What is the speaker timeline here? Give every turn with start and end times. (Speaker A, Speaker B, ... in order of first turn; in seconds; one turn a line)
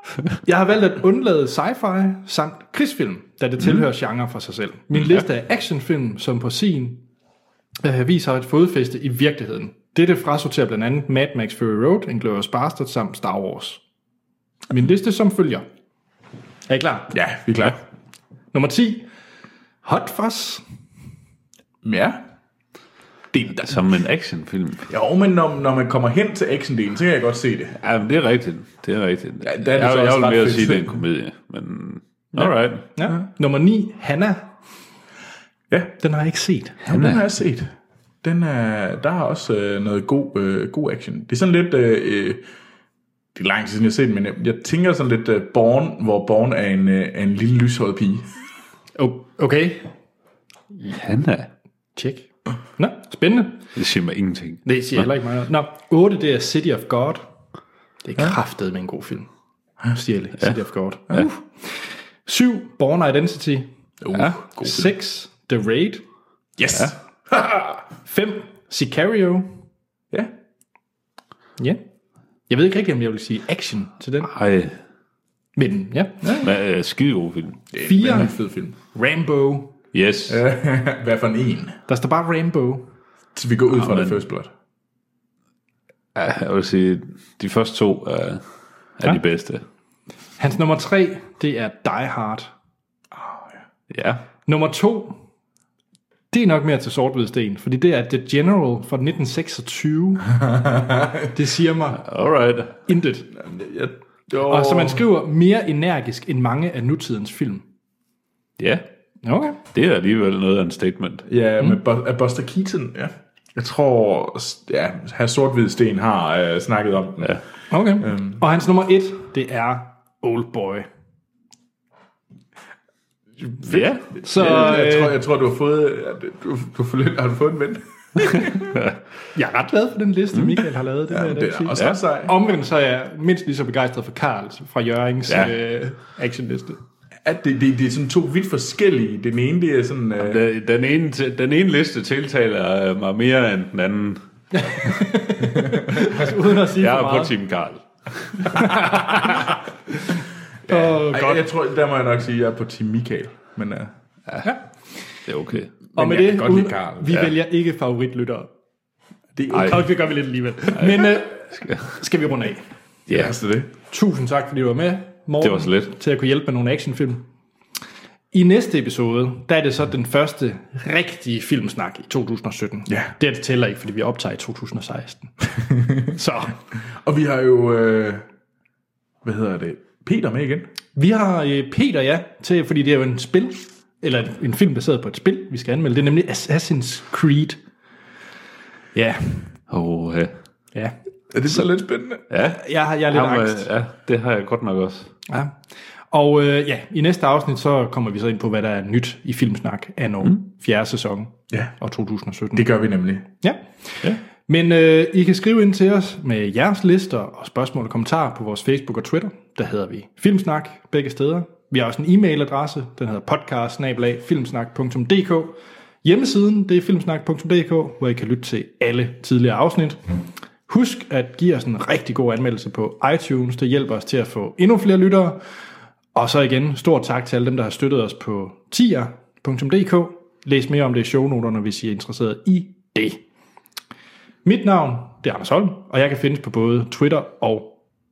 Speaker A: 0.5-7.0
Speaker A: 7.8-13.8
Speaker A: 14.7-15.7
Speaker A: 16.7-17.1
Speaker B: 17.1-17.8
Speaker A: 18.5-19.1
Speaker A: 19.8-20.6
Speaker B: 21.8-22.2
Speaker B: 23.3-23.8
Speaker C: 23.6-24.9
Speaker B: 24.9-27.8
Speaker C: 27.8-32.8
Speaker B: 29.4-31.0
Speaker A: 33.0-34.5
Speaker B: 35.7-36.0
Speaker A: 36.0-36.8
Speaker B: 36.8-42.4
Speaker C: 36.9-37.2
Speaker B: 43.4-48.3
Speaker A: 49.0-49.9
Speaker C: 50.9-51.5
Speaker A: 52.0-53.6
Speaker C: 53.8-55.1
Speaker A: 54.6-57.2
Speaker A: 58.0-59.3
Speaker A: 59.9-66.0
Speaker B: 64.0-64.9
Speaker B: 66.6-67.8
Speaker A: 68.0-69.6
Speaker A: 72.5-74.3
Speaker C: 74.3-74.8
Speaker A: 75.6-76.4
Speaker C: 76.4-77.6
Speaker B: 77.7-78.8
Speaker A: 77.8-79.7
Speaker C: 79.9-80.4
Speaker B: 80.3-81.8
Speaker A: 81.9-82.9
Speaker B: 83.3-84.5
Speaker C: 83.8-84.2
Speaker C: 86.2-88.4
Speaker C: 89.0-89.6
Speaker A: 90.4-92.5
Speaker B: 93.1-93.6
Speaker C: 93.9-94.2
Speaker A: 94.5-95.2
Speaker A: 96.3-100.3
Speaker B: 100.8-101.1
Speaker A: 101.3-102.0
Speaker C: 101.9-102.8
Speaker A: 102.9-103.3
Speaker B: 103.3-105.0
Speaker A: 104.4-107.6
Speaker C: 108.6-108.8
Speaker A: 109.2-109.6
Speaker C: 109.7-111.3
Speaker B: 111.3-117.4
Speaker A: 117.7-120.9
Speaker B: 118.0-118.4
Speaker B: 123.4-128.7
Speaker C: 123.7-124.1
Speaker A: 124.2-125.2
Speaker C: 128.6-129.0
Speaker A: 129.3-136.8
Speaker B: 131.1-132.3
Speaker C: 135.3-135.5
Speaker B: 137.2-140.4
Speaker C: 140.2-144.2
Speaker A: 144.5-147.3
Speaker C: 146.7-149.0
Speaker A: 148.5-149.3
Speaker B: 150.7-153.9
Speaker A: 150.7-151.4
Speaker C: 155.3-155.7
Speaker B: 155.9-157.2
Speaker A: 156.0-158.5
Speaker B: 159.4-159.9
Speaker A: 159.5-162.7
Speaker C: 160.8-161.9
Speaker C: 163.1-163.3
Speaker B: 163.1-163.7
Speaker A: 163.9-167.2
Speaker C: 165.4-165.9
Speaker A: 168.3-175.3
Speaker A: 176.1-176.6
Speaker B: 177.0-178.2
Speaker B: 179.2-180.7
Speaker A: 180.9-187.6
Speaker A: 188.9-189.5
Speaker C: 189.7-190.3
Speaker B: 191.3-192.2
Speaker C: 192.3-195.1
Speaker A: 192.4-193.7
Speaker A: 195.3-195.5
Speaker A: 196.1-202.7
Speaker B: 202.5-203.3
Speaker A: 203.4-220.0
Speaker A: 220.7-225.4
Speaker A: 226.2-233.2
Speaker A: 234.4-237.8